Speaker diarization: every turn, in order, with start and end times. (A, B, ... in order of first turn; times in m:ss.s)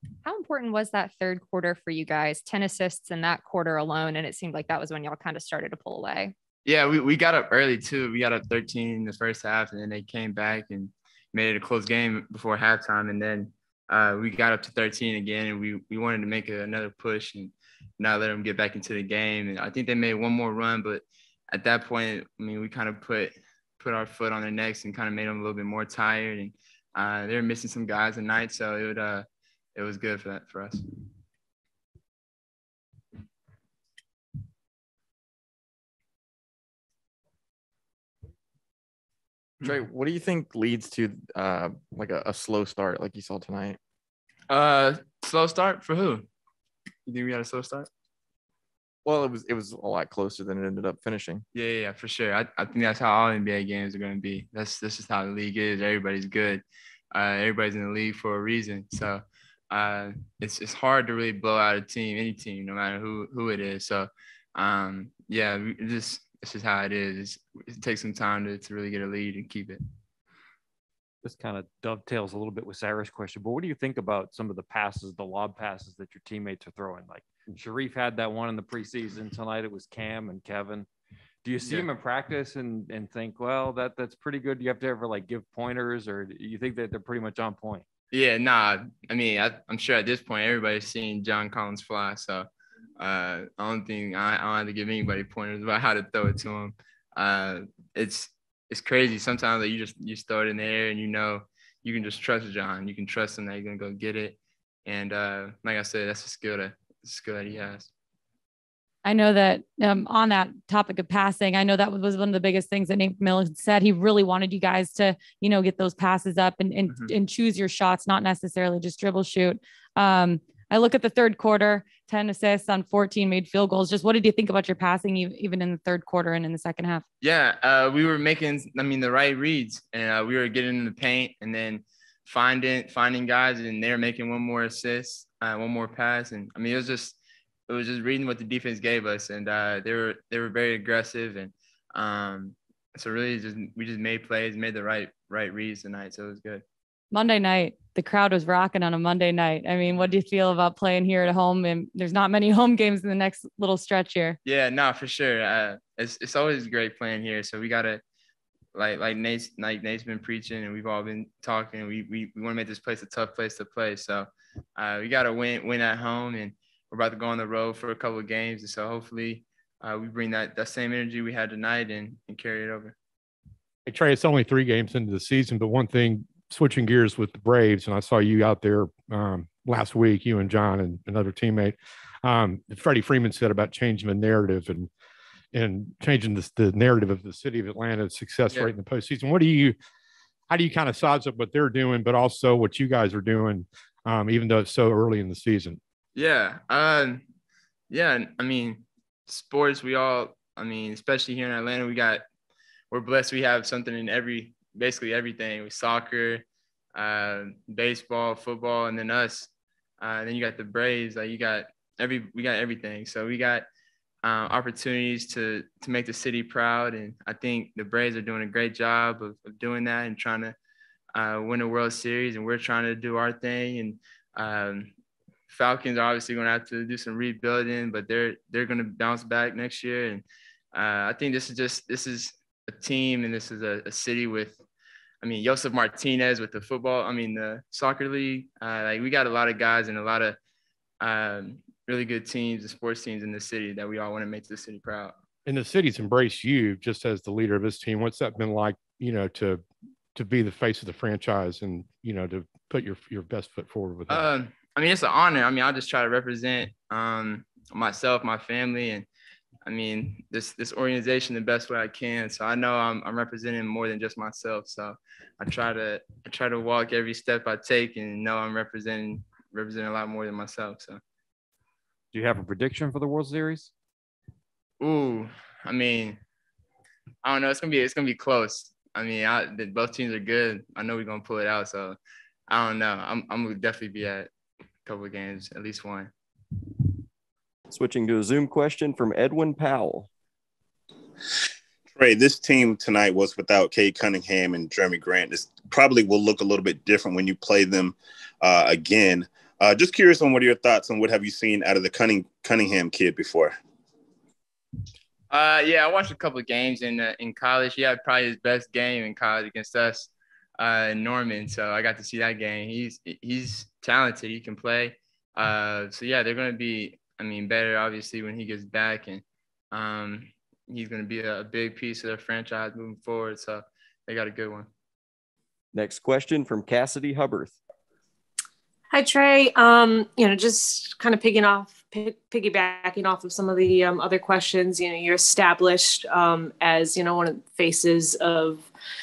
0:00.2-0:06.3 A
0:06.6-0:30.8 B
0:39.6-0:43.8 C
0:44.5-0:46.3 B
0:47.1-0:47.9 B
0:49.0-0:51.4 C
0:51.5-1:09.8 B
1:11.2-1:20.9 D
1:21.4-1:27.8 D
1:28.1-1:32.5 B
1:33.0-1:47.9 B
1:49.0-2:07.0 E
2:07.2-2:17.2 B
2:17.7-2:26.6 B
2:27.1-2:34.4 E
2:34.4-2:38.0 B
2:38.7-2:53.0 B
2:53.9-3:04.9 F
3:05.5-3:09.8 F
3:10.5-3:15.8 F
3:16.2-3:17.2 B
3:17.9-3:22.2 B
3:22.9-3:26.4 B
3:27.0-3:33.7 B
3:34.2-3:40.6 B
3:41.2-3:44.9 B
3:45.5-3:54.6 B
3:55.2-4:00.4 B
4:01.0-4:05.2 B
4:05.5-4:09.6 F
4:10.2-4:14.2 F
4:14.1-4:19.1 B
4:19.6-4:31.0 B
4:32.1-4:33.7 D
4:34.8-4:36.2 B
4:37.2-4:42.0 B
4:42.5-4:44.3 B
4:44.8-4:46.1 B
4:47.7-4:50.1 G
4:51.9-5:03.6 H
5:05.3-5:24.7 B
5:25.7-5:27.6 G
5:28.9-5:38.7 I